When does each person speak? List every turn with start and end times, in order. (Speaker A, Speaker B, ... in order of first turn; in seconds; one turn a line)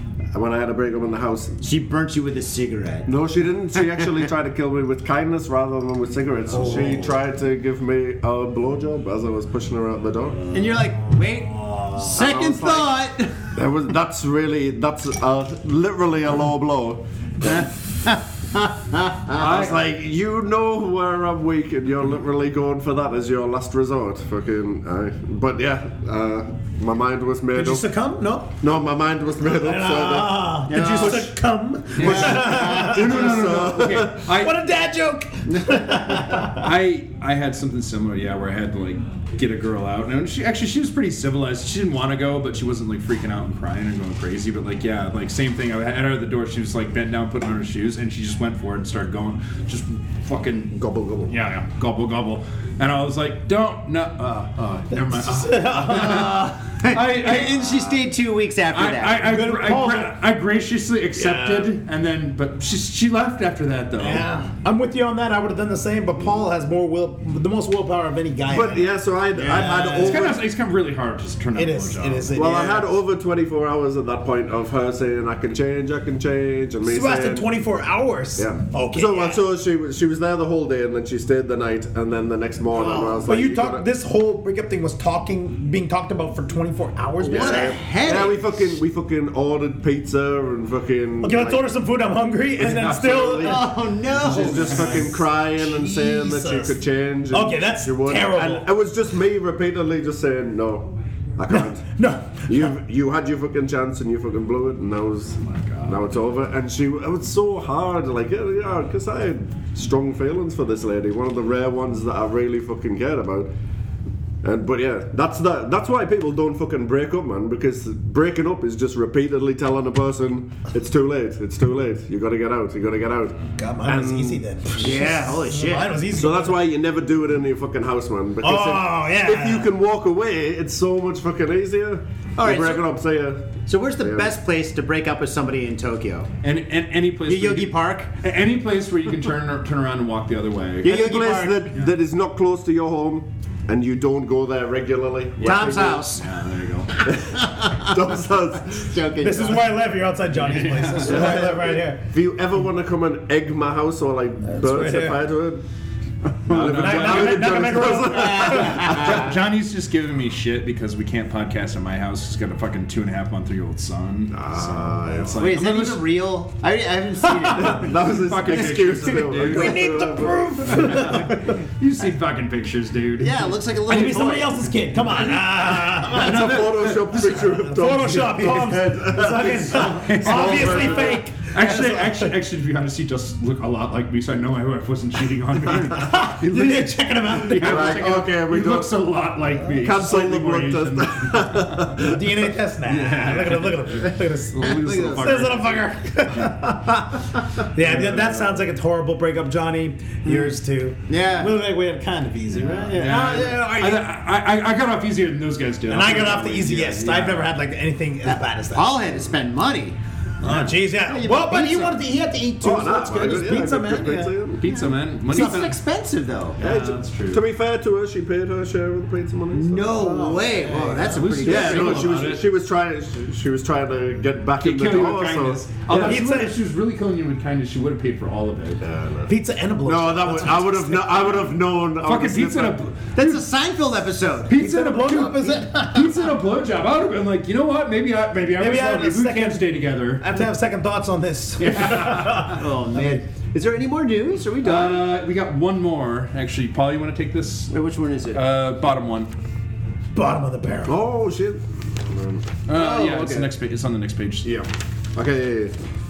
Speaker A: 0.3-1.5
Speaker B: 1.6-3.1
Speaker A: 3.1-10.5
Speaker C: 6.5-7.1
Speaker B: 10.5-13.3
Speaker A: 12.0-13.0
Speaker A: 13.6-17.6
Speaker B: 17.4-19.4
Speaker A: 19.3-27.9
Speaker D: 19.4-19.8
Speaker C: 27.5-28.6
Speaker A: 28.6-31.2
Speaker C: 29.4-33.3
Speaker B: 30.7-31.3
Speaker D: 30.7-31.2
Speaker D: 32.0-34.6
Speaker A: 32.0-34.2
Speaker B: 32.0-33.0
Speaker C: 34.3-36.7
Speaker B: 35.5-35.8
Speaker D: 36.4-58.0
Speaker C: 54.9-56.3
Speaker B: 55.9-59.2
Speaker D: 58.7-64.3
Speaker C: 59.2-60.2
Speaker C: 61.1-61.8
Speaker C: 64.0-70.4
Speaker A: 68.5-70.4
Speaker D: 70.0-72.4
Speaker C: 71.5-72.9
Speaker A: 72.3-77.5
Speaker C: 76.8-79.4
Speaker A: 78.4-83.9
Speaker B: 82.7-83.2
Speaker C: 83.2-87.8
Speaker B: 87.2-88.4
Speaker A: 87.2-91.7
Speaker C: 91.2-98.7
Speaker A: 92.6-101.9
Speaker B: 93.4-94.9
Speaker D: 94.5-95.0
Speaker C: 101.5-102.8
Speaker A: 102.5-113.5
Speaker D: 105.4-106.2
Speaker A: 114.4-125.1
Speaker C: 123.6-126.6
Speaker B: 124.8-125.9
Speaker A: 126.1-134.4
Speaker C: 128.4-129.7
Speaker B: 132.4-132.9
Speaker B: 133.7-136.3
Speaker D: 136.4-140.9
Speaker B: 137.3-138.1
Speaker B: 140.8-141.7
Speaker A: 140.8-146.1
Speaker B: 145.4-146.2
Speaker D: 145.4-147.0
Speaker A: 147.0-148.9
Speaker B: 147.1-147.9
Speaker B: 148.7-149.7
Speaker C: 149.2-152.0
Speaker D: 150.4-151.3
Speaker A: 151.0-155.6
Speaker C: 154.4-155.2
Speaker A: 156.4-159.3
Speaker D: 156.5-166.0
Speaker C: 156.5-159.1
Speaker B: 158.1-159.3
Speaker A: 164.3-165.5
Speaker B: 165.4-167.9
Speaker A: 167.5-171.2
Speaker D: 167.9-170.0
Speaker C: 169.4-171.6
Speaker D: 170.7-174.4
Speaker B: 173.2-174.5
Speaker C: 173.9-176.8
Speaker D: 176.0-177.6
Speaker A: 176.1-181.2
Speaker C: 177.7-182.4
Speaker D: 179.8-192.0
Speaker C: 185.9-188.1
Speaker A: 187.6-189.1
Speaker A: 189.7-192.3
Speaker C: 192.0-203.8
Speaker D: 192.9-196.5
Speaker B: 194.6-195.2
Speaker D: 197.9-198.4
Speaker B: 201.1-201.6
Speaker D: 202.6-207.6
Speaker B: 203.0-204.0
Speaker C: 205.9-209.1
Speaker B: 208.3-210.0
Speaker C: 210.4-214.4
Speaker D: 210.4-210.7
Speaker B: 211.1-211.9
Speaker A: 212.6-214.6
Speaker D: 214.6-215.8
Speaker B: 215.3-216.6
Speaker D: 216.6-217.4
Speaker A: 216.6-220.8
Speaker B: 219.5-222.2
Speaker C: 219.9-221.3
Speaker D: 221.1-222.5
Speaker A: 221.4-226.2
Speaker D: 224.6-228.8
Speaker C: 225.9-226.6
Speaker A: 228.8-232.8
Speaker C: 229.3-231.6
Speaker D: 232.0-233.4
Speaker B: 233.2-234.5
Speaker D: 234.5-240.3
Speaker C: 234.5-236.3
Speaker C: 238.6-242.7
Speaker D: 241.6-242.6
Speaker B: 242.5-245.1
Speaker D: 244.6-247.7
Speaker B: 247.7-248.4
Speaker D: 248.3-249.3
Speaker C: 250.1-251.0
Speaker A: 250.9-253.1
Speaker D: 252.7-254.5
Speaker B: 252.7-253.5
Speaker A: 254.4-255.7